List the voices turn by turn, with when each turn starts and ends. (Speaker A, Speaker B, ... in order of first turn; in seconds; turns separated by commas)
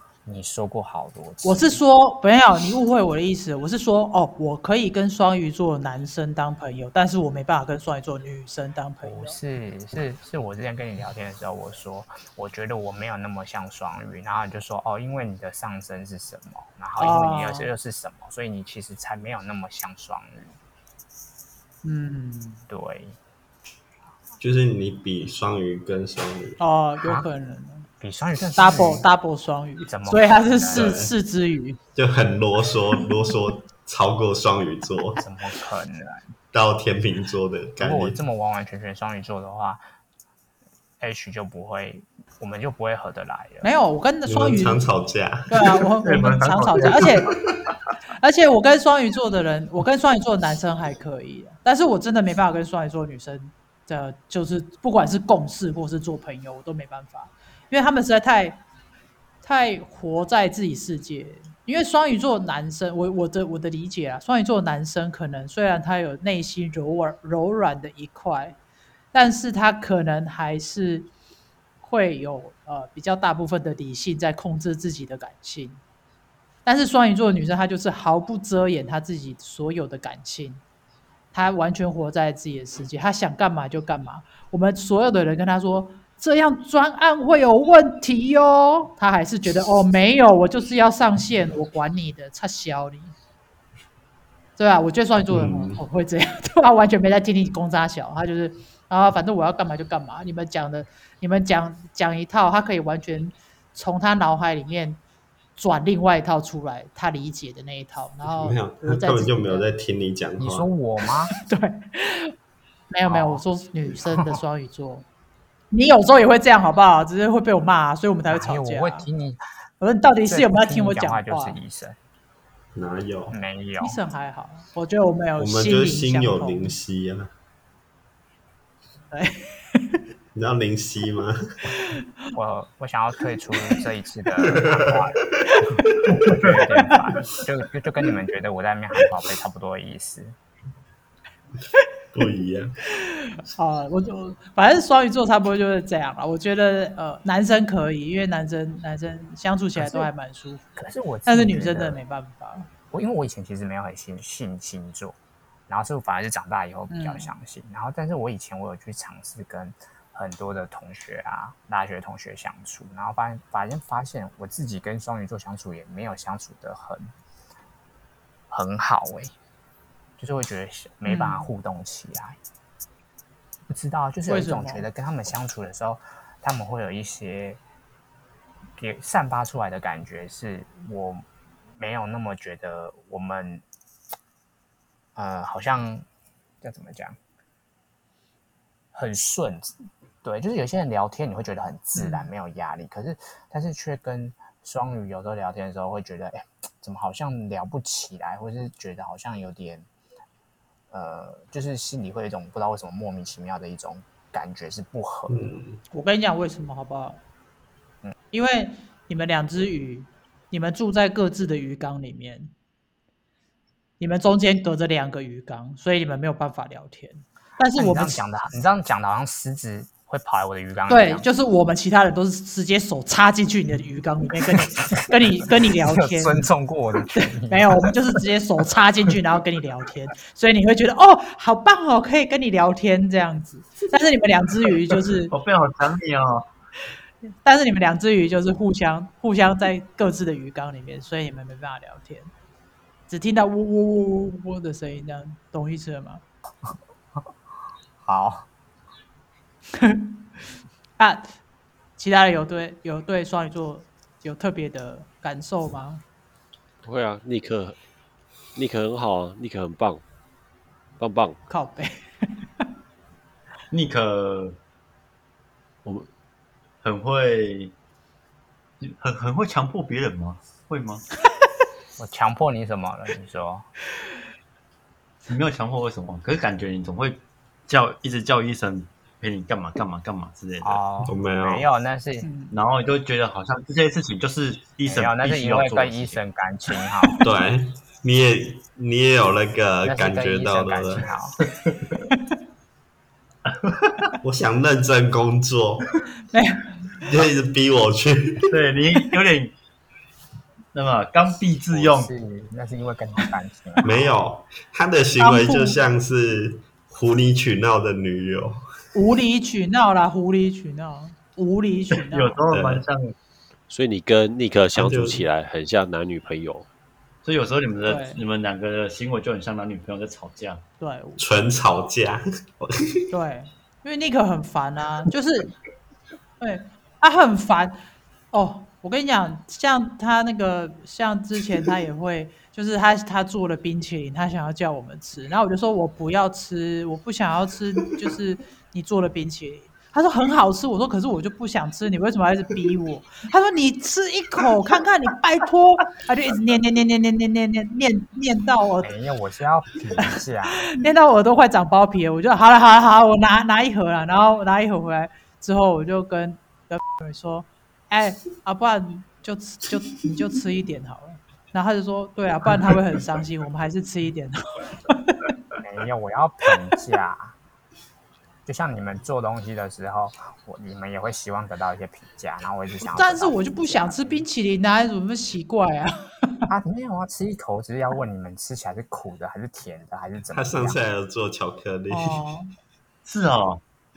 Speaker A: 0.2-1.8, Speaker B: 1.4-9.4, Speaker A: 9.0-20.6, Speaker B: 17.0-17.7, Speaker B: 21.8-22.6, Speaker A: 22.7-23.2, Speaker C: 24.4-26.6, Speaker B: 26.6-27.9, Speaker A: 28.0-29.0, Speaker B: 28.6-31.8, Speaker A: 29.8-31.1, Speaker C: 30.7-31.1, Speaker C: 31.9-35.2, Speaker A: 35.2-36.3, Speaker C: 36.5-38.2, Speaker A: 37.8-39.8, Speaker A: 41.0-43.7, Speaker B: 43.6-44.8, Speaker C: 44.2-45.6, Speaker B: 45.5-47.3, Speaker D: 46.0-47.4, Speaker B: 48.2-58.6, Speaker B: 59.4-68.6, Speaker B: 69.1-71.1, Speaker B: 71.8-75.8, Speaker B: 76.6-80.6, Speaker B: 81.3-93.1, Speaker B: 94.6-105.0, Speaker C: 95.3-95.8, Speaker B: 105.5-109.7, Speaker C: 108.3-110.7, Speaker A: 110.4-111.3, Speaker B: 111.4-112.3, Speaker B: 112.9-115.0, Speaker A: 113.0-113.4, Speaker A: 114.0-114.4, Speaker B: 115.7-119.1, Speaker A: 118.3-119.4, Speaker B: 119.8-121.6, Speaker A: 120.2-122.0, Speaker C: 122.7-123.4, Speaker A: 123.3-124.0, Speaker B: 123.8-126.7, Speaker C: 125.4-127.3, Speaker B: 129.1-130.0, Speaker C: 130.3-131.3, Speaker A: 132.3-135.2, Speaker C: 134.4-136.5, Speaker A: 136.3-140.3, Speaker C: 142.1-142.8, Speaker B: 143.0-150.6, Speaker A: 149.8-150.1, Speaker A: 150.8-152.0, Speaker B: 151.3-152.7, Speaker A: 152.9-155.2, Speaker A: 155.7-167.1, Speaker B: 156.9-157.3, Speaker A: 168.5-169.3, Speaker A: 170.2-172.4, Speaker B: 171.1-171.5, Speaker A: 173.7-177.6, Speaker B: 174.2-174.9, Speaker A: 178.8-181.2, Speaker A: 181.8-183.6, Speaker A: 185.1-186.1, Speaker A: 186.6-187.2, Speaker A: 188.9-199.9, Speaker B: 191.9-192.3, Speaker A: 200.9-205.5, Speaker C: 205.3-205.8, Speaker B: 205.9-207.2, Speaker B: 208.3-212.5, Speaker B: 214.0-218.2, Speaker A: 217.8-221.3, Speaker B: 220.9-226.4, Speaker A: 224.9-227.9, Speaker B: 227.1-235.3, Speaker D: 235.3-236.4, Speaker B: 237.4-242.3, Speaker B: 243.1-246.2, Speaker A: 246.6-247.3, Speaker A: 248.0-248.5, Speaker B: 251.0-251.3, Speaker B: 252.0-256.0, Speaker E: 256.8-257.8, Speaker E: 258.5-260.0, Speaker E: 261.0-261.4, Speaker B: 261.5-262.2, Speaker D: 263.7-264.6, Speaker D: 266.8-267.7, Speaker D: 268.8-271.0, Speaker A: 272.0-273.7, Speaker D: 275.3-280.9, Speaker A: 280.6-282.3, Speaker C: 281.0-281.7, Speaker B: 282.2-282.5, Speaker D: 282.5-286.2, Speaker A: 284.9-287.2, Speaker C: 287.2-291.1, Speaker A: 289.8-291.4, Speaker D: 291.6-291.9, Speaker D: 293.5-294.1, Speaker C: 294.2-295.9, Speaker B: 296.3-296.9, Speaker C: 297.1-298.5, Speaker D: 298.5-299.5, Speaker D: 300.7-302.1, Speaker A: 301.7-304.2, Speaker C: 303.8-308.6, Speaker B: 305.2-305.8, Speaker B: 308.9-312.4, Speaker D: 312.1-313.1, Speaker C: 312.5-312.9, Speaker E: 313.7-316.6, Speaker C: 314.7-315.2, Speaker D: 317.2-320.6, Speaker B: 317.9-318.2, Speaker B: 320.8-321.2, Speaker C: 321.2-323.1, Speaker B: 323.1-325.5, Speaker B: 326.4-348.9, Speaker A: 348.8-350.7, Speaker B: 350.6-365.3, Speaker A: 365.6-367.4, Speaker A: 368.4-374.3, Speaker B: 372.9-376.5, Speaker A: 376.5-380.8, Speaker C: 380.3-382.2, Speaker B: 381.9-382.5, Speaker D: 383.0-383.6